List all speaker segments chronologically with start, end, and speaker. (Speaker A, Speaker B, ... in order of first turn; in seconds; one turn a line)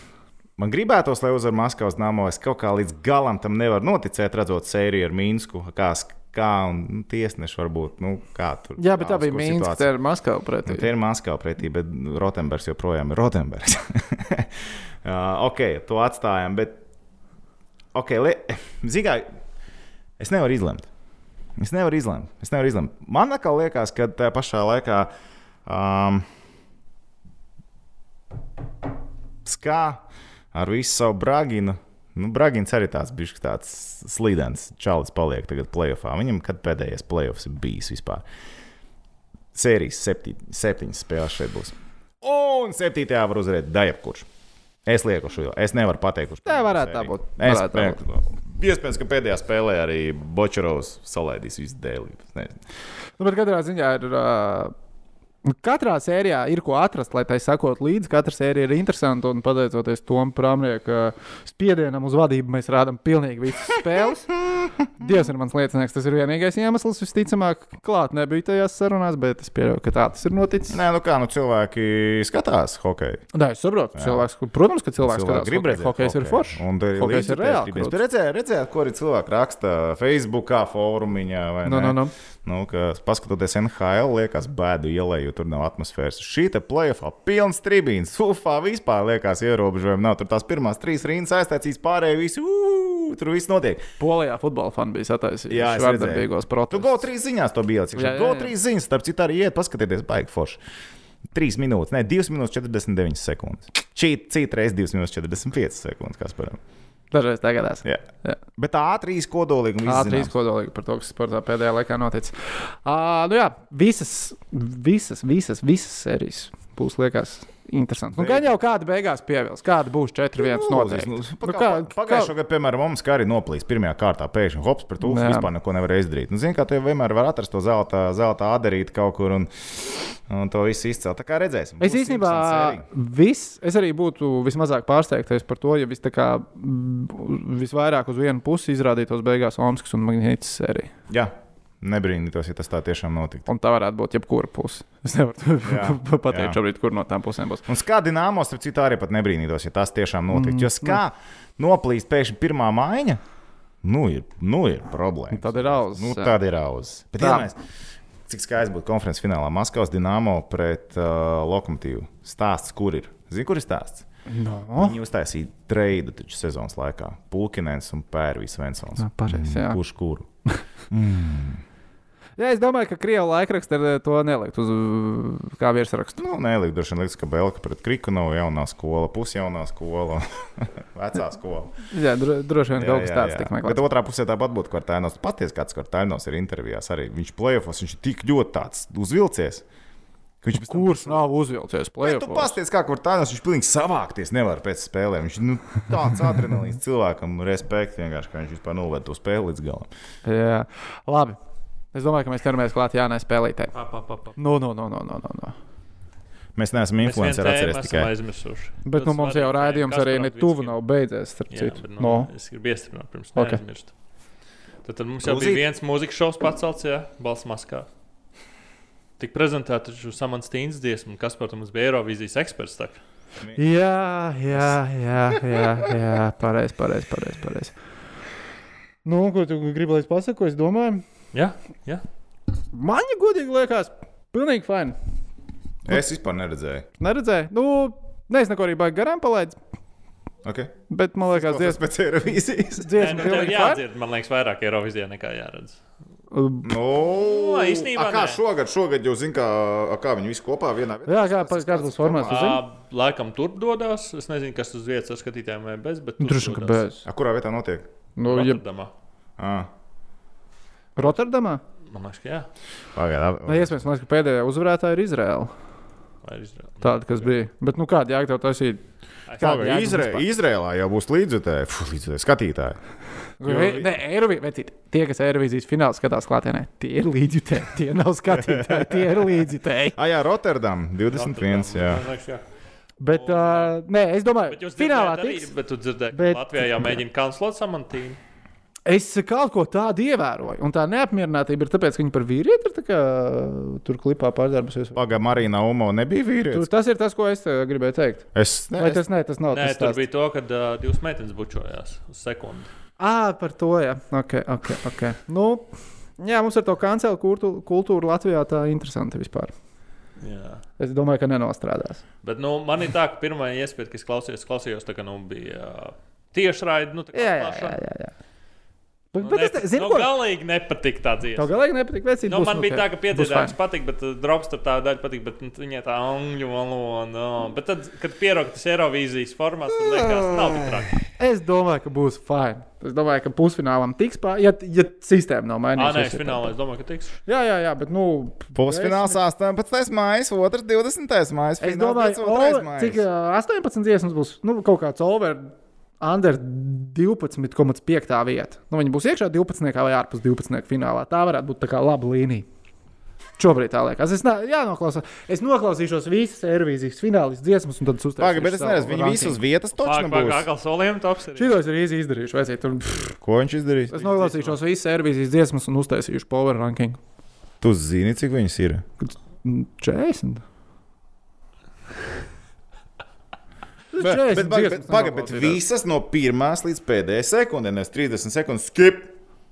Speaker A: 0.6-9.9
Speaker B: 8.8-10.9
Speaker A: 10.6-14.5
Speaker A: 15.0-16.7
Speaker A: 17.9-19.2
Speaker A: 20.2-20.9
Speaker A: 21.6-25.1
Speaker A: 25.6-26.2
Speaker A: 29.4-30.0
Speaker A: 30.5-38.2
Speaker A: 39.5-44.3
Speaker A: 44.8-52.6
Speaker B: 46.5-48.0
Speaker B: 53.2-54.7
Speaker B: 55.4-64.3
Speaker B: 65.0-70.8
Speaker A: 70.7-73.2
Speaker B: 73.3-78.0
Speaker A: 74.0-74.2
Speaker A: 75.0-93.8
Speaker B: 81.6-82.1
Speaker B: 94.0-97.0
Speaker A: 95.5-100.6
Speaker B: 97.9-98.5
Speaker A: 101.3-106.6
Speaker B: 107.1-108.4
Speaker A: 108.6-110.3
Speaker B: 109.8-122.3
Speaker A: 118.1-118.5
Speaker A: 120.4-132.8
Speaker B: 125.0-125.5
Speaker B: 131.8-140.9
Speaker A: 141.1-143.5
Speaker B: 143.5-147.6
Speaker A: 145.6-146.6
Speaker A: 147.7-153.2
Speaker B: 150.3-151.0
Speaker A: 153.8-157.6
Speaker B: 155.3-156.4
Speaker B: 157.2-157.5
Speaker A: 158.3-164.0
Speaker B: 164.3-165.0
Speaker A: 164.8-170.3
Speaker B: 169.0-169.8
Speaker A: 170.9-171.6
Speaker B: 172.4-176.2
Speaker A: 176.2-181.7
Speaker B: 181.9-183.8
Speaker A: 182.7-189.6
Speaker A: 190.4-191.2
Speaker B: 190.6-192.6
Speaker A: 192.0-199.9
Speaker B: 200.2-201.4
Speaker B: 201.9-203.7
Speaker C: 203.7-204.3
Speaker B: 204.3-205.5
Speaker A: 206.6-208.1
Speaker C: 207.0-210.8
Speaker B: 208.8-212.3
Speaker C: 211.5-213.9
Speaker B: 213.3-213.6
Speaker C: 214.8-217.9
Speaker A: 215.2-215.6
Speaker C: 219.2-223.0
Speaker B: 223.5-227.7
Speaker A: 225.3-225.6
Speaker B: 229.0-231.0
Speaker C: 231.3-232.0
Speaker B: 232.7-234.9
Speaker A: 235.8-236.8
Speaker B: 237.0-239.6
Speaker A: 240.4-240.7
Speaker B: 240.9-241.8
Speaker A: 241.3-243.3
Speaker B: 242.8-243.8
Speaker C: 243.0-245.8
Speaker B: 246.3-246.7
Speaker A: 246.6-252.4
Speaker C: 247.1-248.4
Speaker B: 251.1-252.6
Speaker C: 252.3-256.9
Speaker B: 256.2-257.0
Speaker A: 257.1-257.9
Speaker B: 258.2-258.6
Speaker C: 258.3-258.9
Speaker A: 259.4-259.7
Speaker B: 260.9-261.6
Speaker C: 261.9-262.5
Speaker A: 262.9-263.7
Speaker B: 263.4-265.5
Speaker C: 266.2-267.1
Speaker B: 266.8-268.8
Speaker C: 269.3-269.6
Speaker B: 269.4-270.3
Speaker A: 269.4-272.8
Speaker B: 273.4-279.9
Speaker A: 273.4-273.9
Speaker A: 278.3-279.4
Speaker A: 279.9-282.0
Speaker C: 281.1-282.4
Speaker B: 283.0-285.5
Speaker C: 283.1-283.8
Speaker C: 284.5-288.2
Speaker B: 286.1-287.0
Speaker B: 288.9-295.0
Speaker A: 294.9-296.7
Speaker B: 296.5-298.2
Speaker A: 298.3-299.0
Speaker B: 298.8-300.0
Speaker C: 299.5-302.7
Speaker B: 303.0-305.6
Speaker B: 306.2-309.5
Speaker C: 310.2-310.6
Speaker B: 310.8-312.0
Speaker C: 312.2-317.8
Speaker B: 317.1-318.1
Speaker B: 319.1-320.1
Speaker C: 319.2-321.6
Speaker B: 321.4-323.5
Speaker C: 322.2-331.0
Speaker A: 329.9-330.8
Speaker B: 331.2-336.5
Speaker C: 335.8-337.2
Speaker B: 337.2-339.2
Speaker A: 338.6-343.0
Speaker B: 341.6-352.4
Speaker B: 353.4-359.4
Speaker A: 358.2-360.5
Speaker C: 359.8-361.6
Speaker B: 361.4-363.0
Speaker A: 363.1-363.9
Speaker B: 363.9-367.0
Speaker C: 364.0-364.6
Speaker A: 367.6-368.8
Speaker B: 369.0-370.4
Speaker B: 373.9-375.6
Speaker A: 374.0-379.1